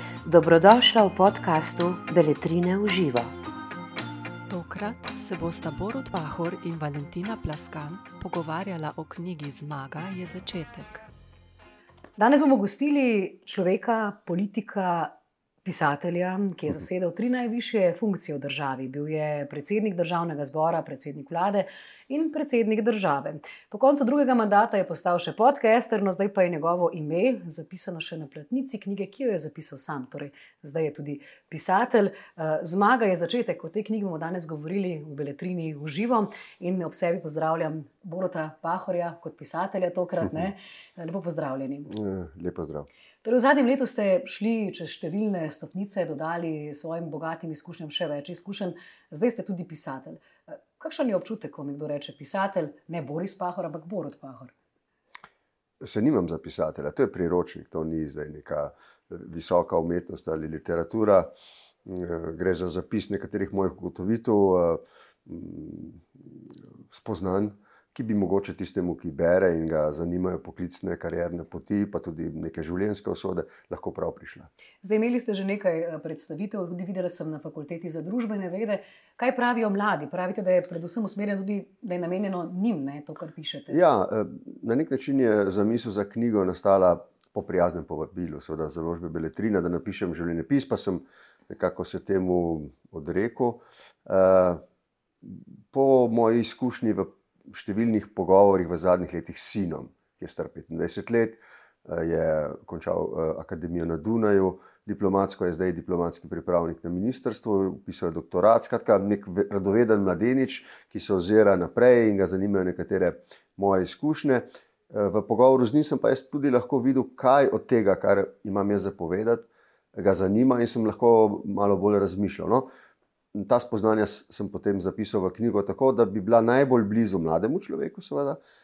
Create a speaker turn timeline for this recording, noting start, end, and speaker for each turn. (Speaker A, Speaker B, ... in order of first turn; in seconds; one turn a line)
Speaker A: 0.2-3.3
Speaker B: 4.5-11.0
Speaker C: 12.2-15.1
Speaker C: 15.6-41.9
Speaker D: 41.9-42.9
Speaker C: 43.2-54.5
Speaker D: 55.8-61.3
Speaker D: 61.8-74.5
Speaker C: 74.8-83.8
Speaker D: 83.7-94.6
Speaker D: 95.2-122.7
Speaker D: 123.3-128.4